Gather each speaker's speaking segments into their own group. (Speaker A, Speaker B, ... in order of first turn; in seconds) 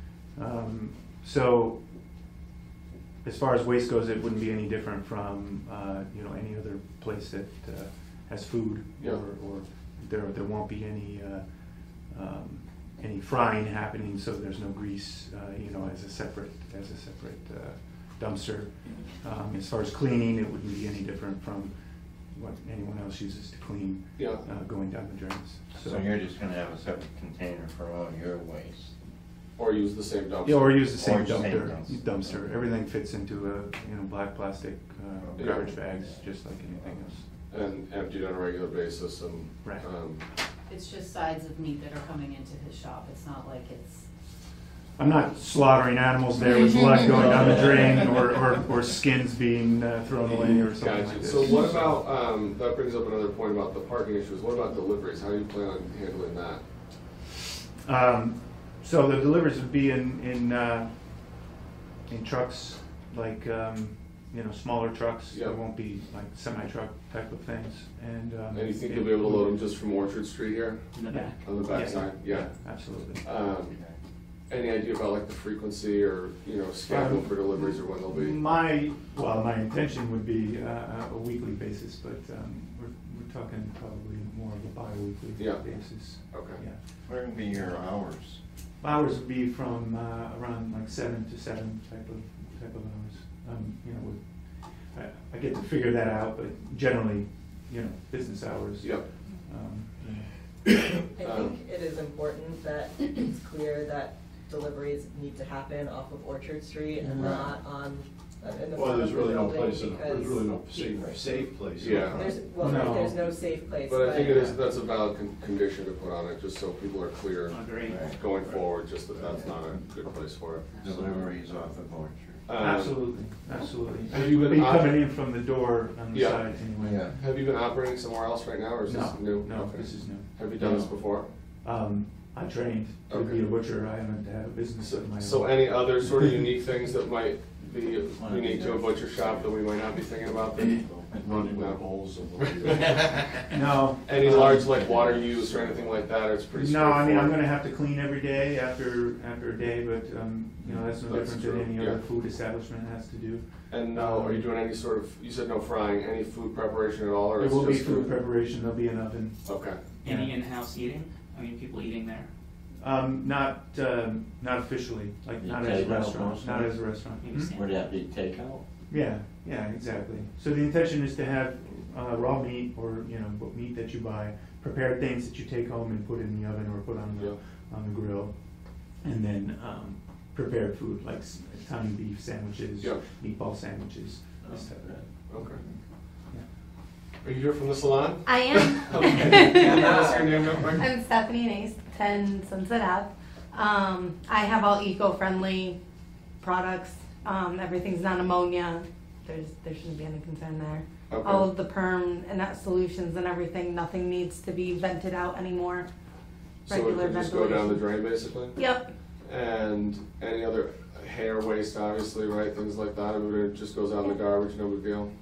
Speaker A: 0.3-1.9, 3.2-26.1, 30.4-37.3, 39.6-39.9, 45.0-52.0, 57.8-61.4, 62.1-69.7, 71.1-73.2, 76.9-87.7, 88.8-100.3, 112.1-113.2, 114.1-114.6, 122.6-127.2, 128.8-130.9, 131.6-136.3, 143.5-144.7, 146.5-154.5, 157.3-160.3, 162.8-167.5, 168.9-186.4
Speaker B: 24.2-24.4, 29.6-30.8, 35.4-35.7, 37.5-40.2, 50.3-56.6, 65.3-65.6, 68.5-70.8, 71.4-72.5, 73.2-73.8, 74.5-78.4, 85.4-85.7, 86.3-86.6, 98.8-99.0, 101.2-101.5, 111.8-112.2, 113.9-117.6, 118.1-120.6, 122.5-123.0, 124.1-125.1, 126.1-126.5, 127.2-131.3, 133.1-133.4, 134.8-140.6, 141.5-141.8, 144.0-147.3, 151.1-152.0, 153.7-158.2, 159.4-159.8, 185.3-185.6, 187.2-190.8, 201.1-201.5, 206.7-208.6, 209.2-215.1
Speaker C: 25.7-28.9, 30.9-32.3, 35.2-35.7, 87.0-88.4, 107.1-107.5, 110.8-111.2, 117.8-118.2, 120.8-122.5, 126.8-127.2, 130.6-130.9, 138.1-141.2, 144.6-146.1, 150.6-151.0, 165.4-167.0, 167.5-168.6
Speaker D: 40.7-43.9
Speaker E: 70.9-71.5, 117.5-118.6, 120.7-121.4, 160.0-162.3, 167.2-167.7
Speaker F: 101.1-110.6, 112.2-114.5
Speaker G: 108.7-112.2, 141.1-143.3
Speaker H: 188.2-190.1, 190.7-195.8, 196.4-205.9, 206.7-208.9